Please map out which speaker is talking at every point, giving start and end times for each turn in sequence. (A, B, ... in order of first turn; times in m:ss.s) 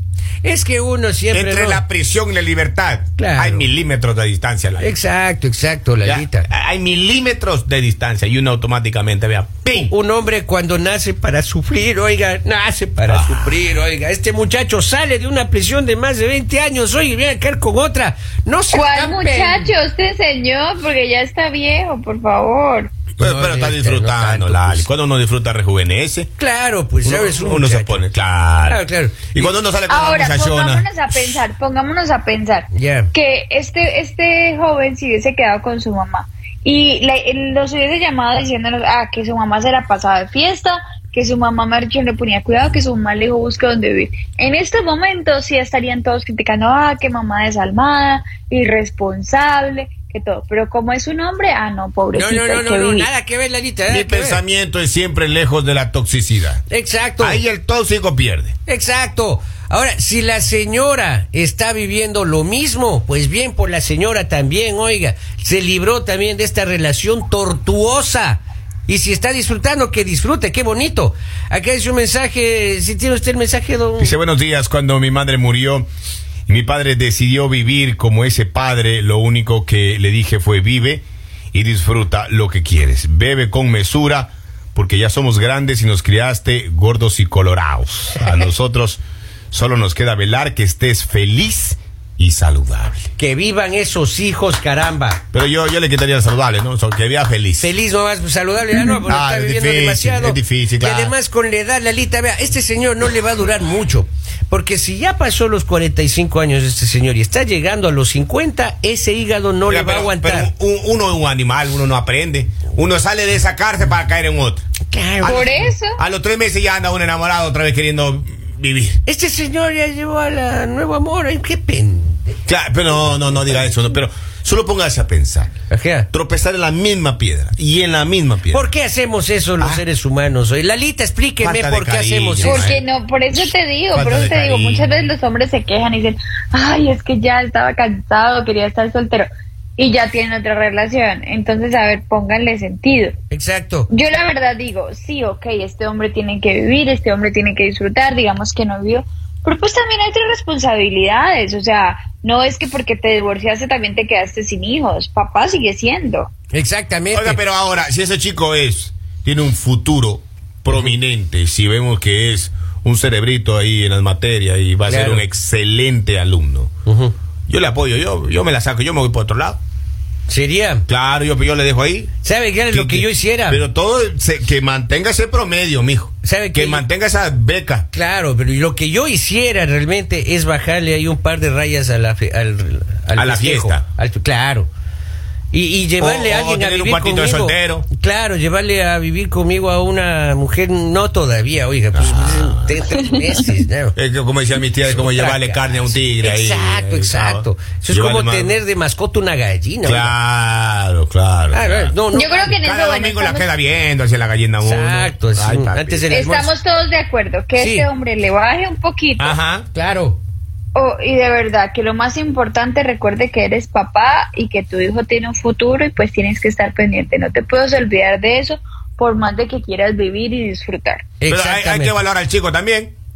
0:00.4-0:01.8 A
0:01.3-0:05.0 B
0:03.2-0:03.7 A
0:04.8-0:06.5 A
0:06.0-0:09.9 B
0:09.7-0:19.7 A
0:13.0-0:13.6 B
0:18.7-0:22.9 C
0:23.2-0:24.9 A
0:23.2-0:26.3 B
0:26.4-0:28.0 A
0:27.0-0:31.4 B
0:28.7-0:29.5 A
0:29.9-0:53.1 C
0:32.7-0:33.1 A
0:52.1-0:54.4 A
0:53.9-0:56.6 B
0:56.7-0:57.4 A
0:57.2-0:58.6 B
0:58.7-1:14.1 A
1:14.0-1:15.9 B
1:16.5-1:29.0 B
1:29.5-1:33.1 B
1:33.2-1:35.2 A
1:35.3-1:37.7 B
1:37.6-1:50.5 A
1:39.1-1:41.2 B
1:49.7-1:54.6 B
1:54.9-1:55.7 A
1:55.2-1:59.0 B
1:55.2-1:56.0 C
1:59.1-2:02.4 A
2:02.5-2:05.5 B
2:05.7-2:06.1 A
2:06.1-2:08.7 B
2:08.5-2:12.7 A
2:11.4-2:12.8 B
2:12.4-2:23.1 C
2:13.9-2:15.0 B
2:23.3-2:23.9 A
2:23.9-2:36.3 C
2:36.5-2:37.4 A
2:37.1-2:46.7 B
2:44.9-2:45.2 A
2:46.9-2:47.1 A
2:47.5-2:49.6 B
2:50.3-2:50.8 A
2:50.9-2:52.1 B
2:52.2-2:53.6 A
2:52.7-2:57.9 B
2:56.2-2:56.8 A
2:57.9-3:04.7 A
3:03.2-3:03.8 B
3:05.5-3:14.0 A
3:06.0-3:07.9 B
3:11.9-3:12.7 B
3:14.0-3:18.6 B
3:14.8-3:20.2 A
3:19.8-3:22.0 B
3:21.5-3:22.6 A
3:22.1-3:23.5 C
3:22.6-3:26.1 B
3:24.6-3:26.5 A
3:26.1-3:29.4 C
3:27.6-3:27.9 A
3:29.2-3:29.7 B
3:29.7-3:30.2 A
3:30.8-3:41.1 C
3:41.2-3:42.0 A
3:41.3-3:42.9 B